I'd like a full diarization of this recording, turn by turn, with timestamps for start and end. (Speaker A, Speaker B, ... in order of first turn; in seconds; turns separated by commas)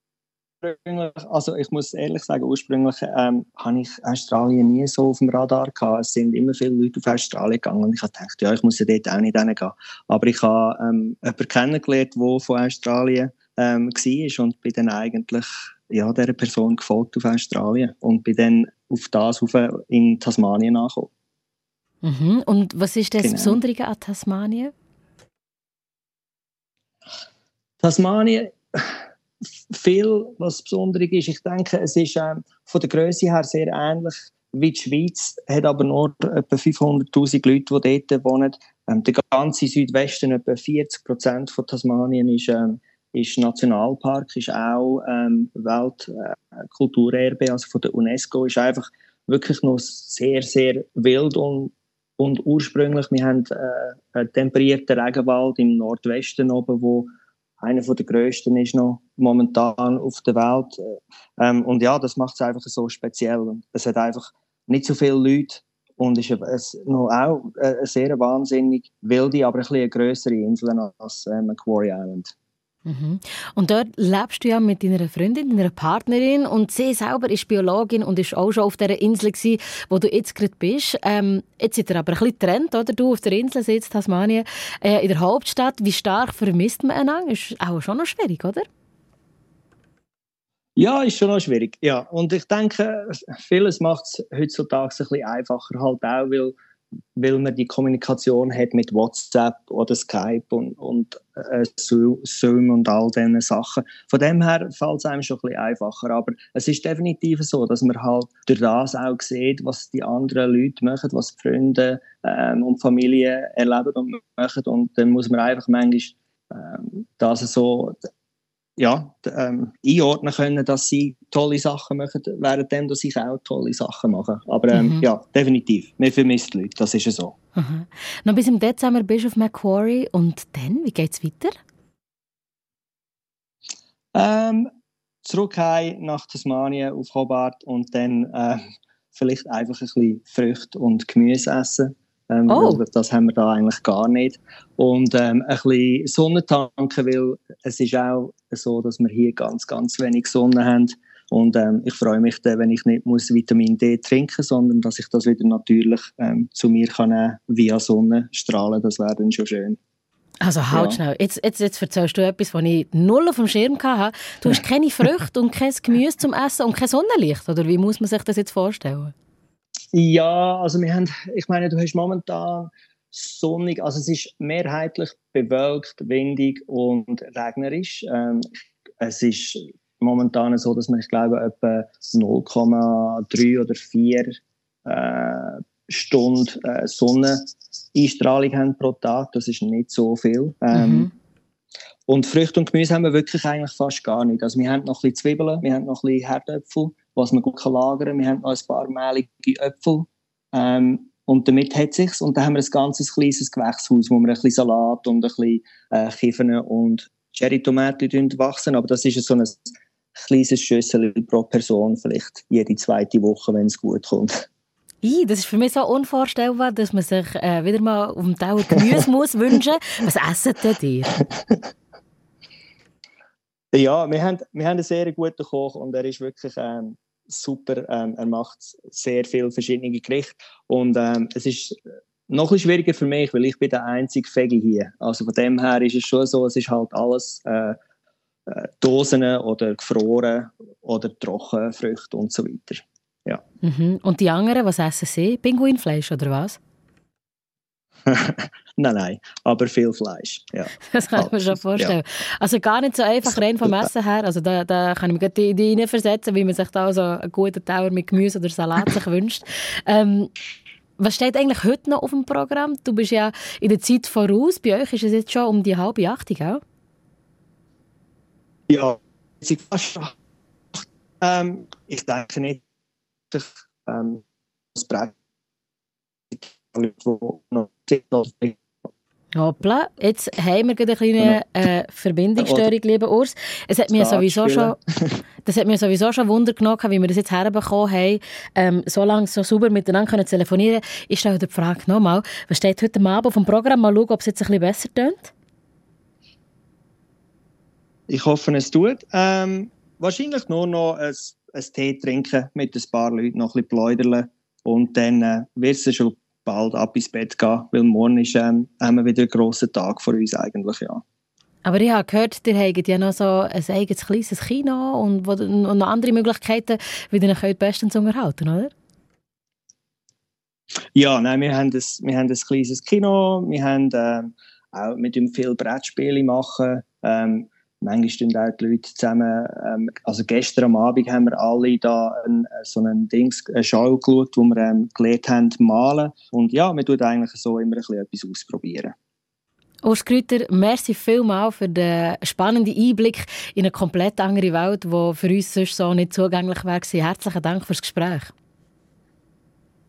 Speaker A: 0.6-21.1, Speaker B: 22.0-24.7, Speaker A: 23.2-23.6, Speaker A: 27.8-29.0, Speaker A: 29.7-57.1, Speaker A: 57.6-72.3, Speaker B: 72.8-88.7, Speaker A: 90.8-96.5, Speaker A: 97.2-118.0, Speaker A: 118.8-127.3, Speaker B: 124.7-125.1, Speaker B: 127.5-131.5, Speaker A: 134.1-134.7, Speaker A: 135.2-138.6, Speaker A: 139.1-159.8, Speaker B: 142.5-142.8, Speaker B: 160.4-169.1, Speaker A: 160.7-161.0, Speaker A: 169.9-178.5, Speaker A: 179.0-191.1, Speaker B: 190.7-191.1, Speaker A: 192.1-214.4, Speaker B: 215.0-221.2, Speaker A: 223.7-231.8, Speaker A: 232.3-237.8, Speaker A: 238.5-243.4, Speaker B: 243.6-246.6, Speaker A: 248.1-251.9, Speaker B: 250.9-260.3, Speaker A: 253.3-253.9, Speaker B: 261.0-266.6, Speaker A: 268.7-270.1, Speaker A: 271.2-272.6, Speaker A: 273.3-274.2, Speaker A: 274.7-275.1, Speaker A: 276.3-278.6, Speaker B: 279.4-284.8, Speaker A: 282.4-282.7, Speaker A: 283.9-285.2, Speaker B: 285.4-295.3, Speaker A: 298.1-311.0, Speaker B: 311.6-318.7, Speaker A: 320.9-338.9, Speaker B: 339.8-348.3